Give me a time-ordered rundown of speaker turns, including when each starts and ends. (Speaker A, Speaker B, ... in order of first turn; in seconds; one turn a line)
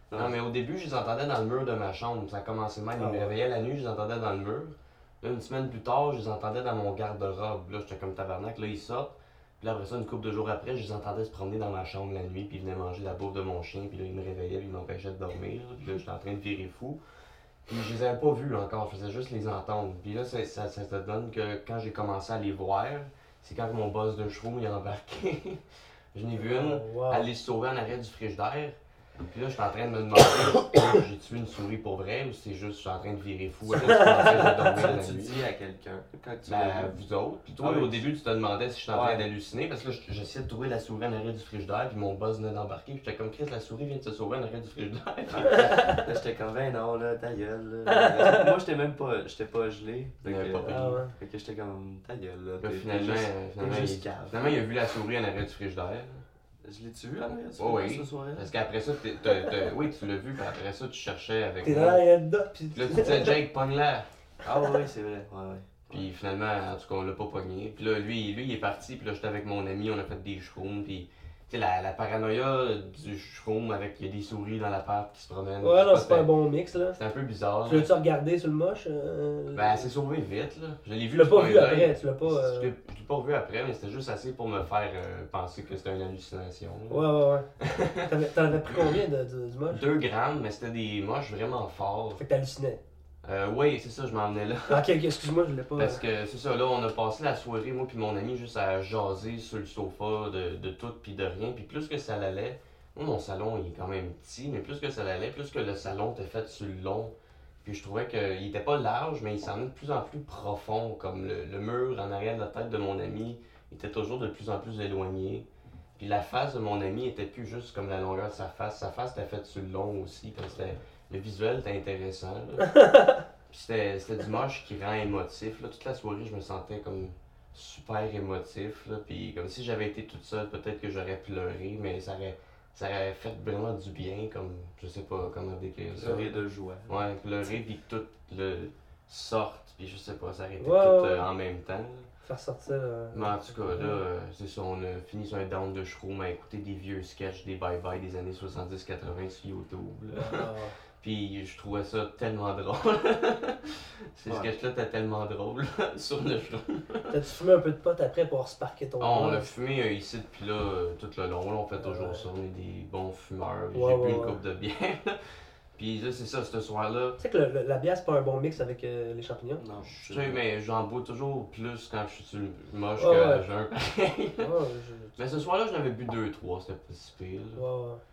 Speaker A: 0.1-0.4
Speaker B: 0.1-17.0
Speaker C: 3.0-3.3
Speaker B: 17.7-35.4
Speaker C: 26.4-27.3
Speaker C: 33.7-34.8
Speaker A: 34.4-36.9
Speaker B: 36.5-45.7
Speaker A: 37.6-38.1
Speaker A: 38.9-39.3
Speaker A: 45.3-54.6
Speaker C: 45.7-46.0
Speaker C: 47.9-48.5
Speaker B: 50.2-51.0
Speaker C: 50.6-51.1
Speaker B: 52.6-56.2
Speaker A: 56.6-58.5
Speaker B: 57.6-62.0
Speaker C: 61.6-63.4
Speaker B: 62.7-64.1
Speaker A: 64.4-66.1
Speaker B: 65.9-76.3
Speaker C: 75.6-77.0
Speaker B: 77.0-77.9
Speaker C: 77.7-79.9
Speaker B: 79.5-87.1
Speaker C: 81.1-82.7
Speaker C: 86.9-89.8
Speaker B: 87.6-88.0
Speaker B: 89.7-92.2
Speaker C: 92.2-92.8
Speaker B: 93.2-94.9
Speaker C: 94.7-96.0
Speaker B: 95.8-122.7
Speaker C: 122.8-123.1
Speaker B: 123.5-142.1
Speaker A: 135.9-136.9
Speaker C: 140.6-141.3
Speaker C: 142.2-144.0
Speaker B: 143.1-150.4
Speaker C: 150.1-150.8
Speaker B: 151.0-157.2
Speaker C: 157.1-159.5
Speaker B: 159.0-165.2
Speaker C: 161.8-162.2
Speaker C: 163.7-164.4
Speaker B: 165.8-167.2
Speaker C: 167.2-169.6
Speaker A: 169.6-170.4
Speaker B: 169.9-174.5
Speaker C: 173.0-173.5
Speaker C: 174.4-175.2
Speaker B: 175.2-177.6
Speaker C: 177.6-178.0